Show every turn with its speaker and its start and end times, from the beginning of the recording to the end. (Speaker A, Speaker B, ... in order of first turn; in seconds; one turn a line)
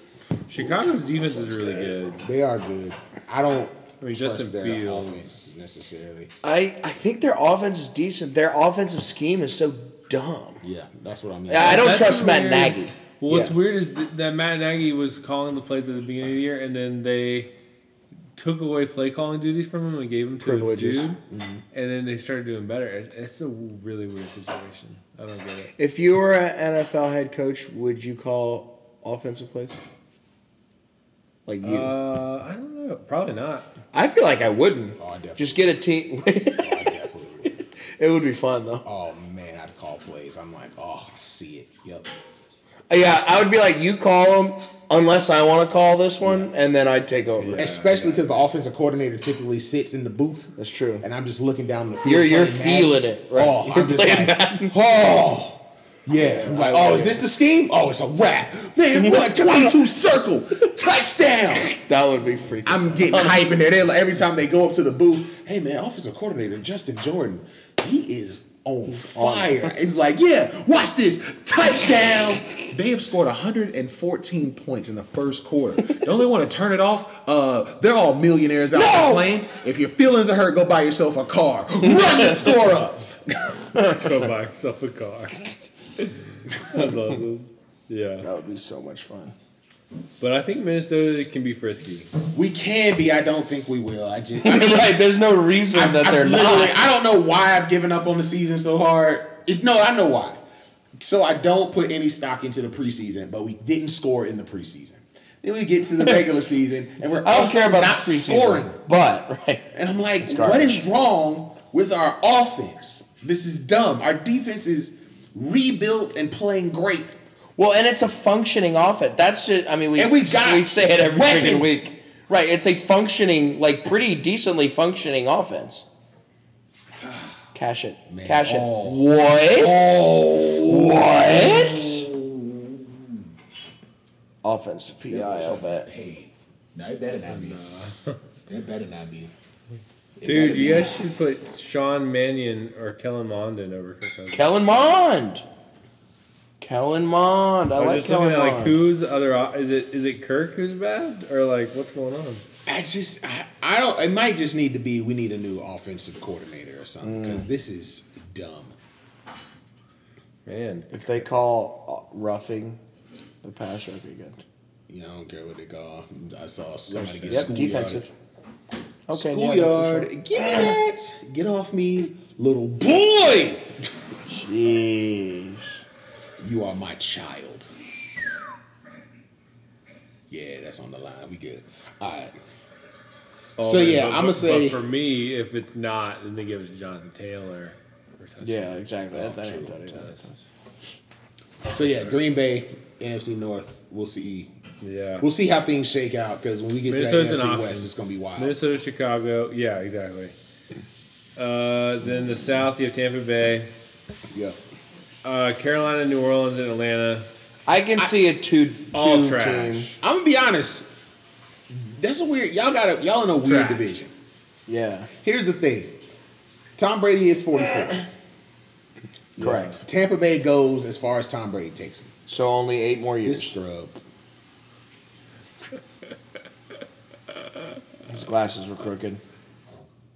Speaker A: 0.5-2.2
Speaker B: 0.5-6.3
Speaker A: 4.0-5.3
Speaker C: 6.4-10.6
Speaker B: 10.6-12.1
Speaker C: 11.5-13.5
Speaker A: 11.6-17.5
Speaker A: 18.4-21.2
Speaker C: 20.4-21.1
Speaker B: 21.3-21.6
Speaker A: 21.7-25.7
Speaker C: 25.8-29.8
Speaker C: 31.4-31.9
Speaker A: 31.6-33.7
Speaker C: 33.9-36.9
Speaker B: 35.0-35.7
Speaker B: 36.6-37.6
Speaker C: 38.0-38.8
Speaker B: 38.8-42.1
Speaker C: 42.9-47.6
Speaker B: 46.2-46.5
Speaker A: 47.4-48.3
Speaker B: 47.5-61.7
Speaker C: 50.6-51.0
Speaker C: 52.0-54.7
Speaker C: 56.1-57.2
Speaker C: 58.9-59.9
Speaker C: 61.5-63.6
Speaker B: 62.6-83.4
Speaker C: 68.9-69.7
Speaker C: 78.7-79.3
Speaker C: 81.8-82.5
Speaker C: 83.7-84.2
Speaker A: 83.9-88.3
Speaker C: 88.2-89.3
Speaker A: 90.2-92.1
Speaker B: 92.3-95.1
Speaker C: 94.4-96.8
Speaker B: 95.7-100.4
Speaker B: 101.0-108.8
Speaker C: 106.0-106.3
Speaker C: 107.2-109.7
Speaker B: 109.7-117.1
Speaker C: 110.2-110.8
Speaker C: 117.5-125.9
Speaker B: 120.0-121.8
Speaker B: 127.0-127.5
Speaker C: 127.5-130.0
Speaker B: 128.1-133.2
Speaker C: 130.6-132.1
Speaker C: 134.4-135.9
Speaker B: 135.1-137.6
Speaker A: 137.3-138.2
Speaker B: 138.5-139.3
Speaker B: 140.2-140.9
Speaker A: 140.2-144.6
Speaker C: 144.3-145.4
Speaker C: 146.6-148.8
Speaker A: 147.8-152.4
Speaker B: 152.7-158.7
Speaker C: 157.0-157.5
Speaker A: 160.4-161.0
Speaker C: 160.9-162.8
Speaker C: 163.4-164.4
Speaker B: 164.9-168.1
Speaker C: 166.9-168.1
Speaker C: 169.1-170.8
Speaker B: 169.1-173.8
Speaker C: 174.2-175.8
Speaker B: 176.4-177.7
Speaker B: 180.3-182.3
Speaker B: 183.6-184.8
Speaker A: 183.6-188.8
Speaker C: 188.4-190.3
Speaker B: 189.1-190.0
Speaker A: 189.9-190.4
Speaker B: 191.7-194.5
Speaker A: 191.8-192.2
Speaker A: 194.8-195.3
Speaker B: 195.2-198.6
Speaker A: 196.9-200.3
Speaker A: 201.4-203.7
Speaker A: 205.2-207.3
Speaker C: 207.7-209.9
Speaker A: 208.9-209.9
Speaker B: 210.0-210.9
Speaker B: 211.7-214.1
Speaker A: 213.4-213.8
Speaker C: 214.7-215.1
Speaker B: 215.2-215.9
Speaker B: 216.8-218.1
Speaker B: 219.4-222.1
Speaker C: 219.4-219.8
Speaker C: 222.3-223.6
Speaker B: 223.2-223.9
Speaker C: 228.1-229.2